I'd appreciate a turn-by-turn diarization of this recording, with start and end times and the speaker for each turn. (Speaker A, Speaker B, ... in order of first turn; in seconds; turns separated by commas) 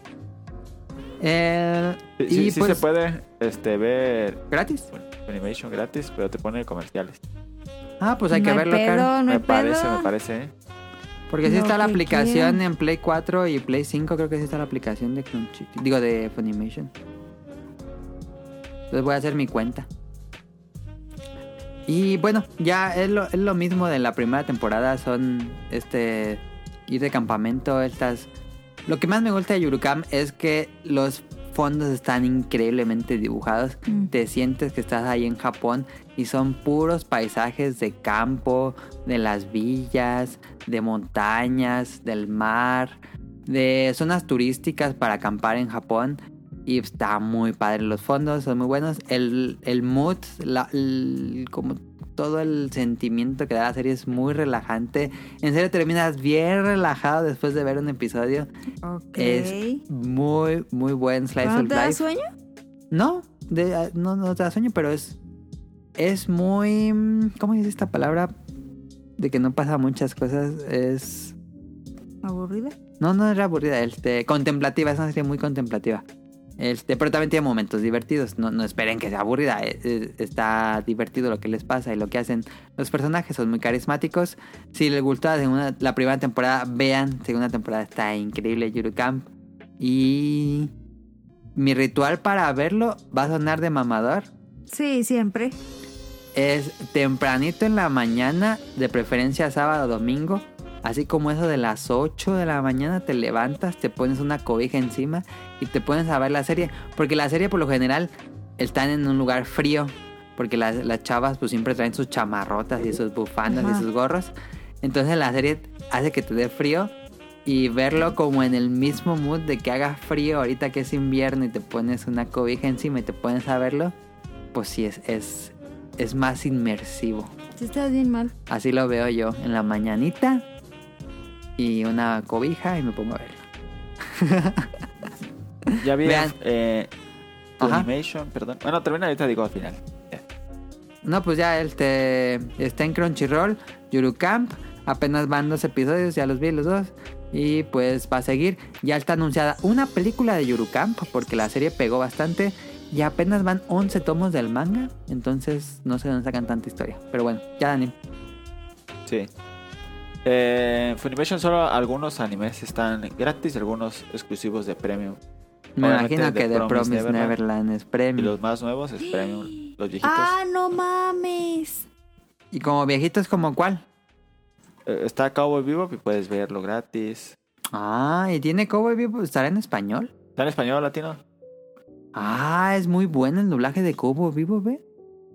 Speaker A: 1.2-2.8, Speaker B: 2.2-7.2, Speaker A: 4.5-4.9, Speaker A: 8.0-9.1, Speaker C: 8.3-10.1, Speaker B: 9.3-10.5, Speaker A: 11.3-16.9, Speaker C: 11.4-12.6, Speaker A: 18.9-19.9, Speaker A: 21.9-28.3, Speaker A: 28.9-58.5, Speaker C: 58.9-59.8, Speaker A: 59.1-62.0, Speaker C: 61.4-62.3, Speaker A: 62.9-65.2, Speaker A: 66.0-68.3, Speaker A: 69.2-71.3, Speaker C: 72.2-72.8, Speaker A: 73.0-76.0, Speaker A: 76.6-89.3, Speaker A: 89.8-90.7, Speaker A: 91.6-94.3, Speaker C: 94.7-95.6, Speaker A: 96.3-116.9, Speaker C: 113.5-113.8, Speaker A: 117.5-123.9, Speaker A: 124.5-127.3, Speaker C: 127.6-128.3, Speaker A: 128.5-130.4, Speaker A: 131.6-133.4, Speaker A: 134.1-134.7, Speaker A: 135.7-136.3, Speaker B: 135.8-136.9, Speaker B: 137.6-140.2, Speaker A: 137.6-137.9, Speaker A: 141.0-157.9, Speaker B: 160.2-165.2, Speaker A: 165.8-168.3, Speaker B: 165.8-167.4, Speaker B: 168.2-170.3, Speaker C: 169.1-169.4, Speaker C: 170.0-171.8, Speaker A: 172.5-173.8, Speaker B: 174.9-177.3, Speaker A: 177.7-180.1, Speaker B: 180.4-181.2, Speaker A: 182.2-184.8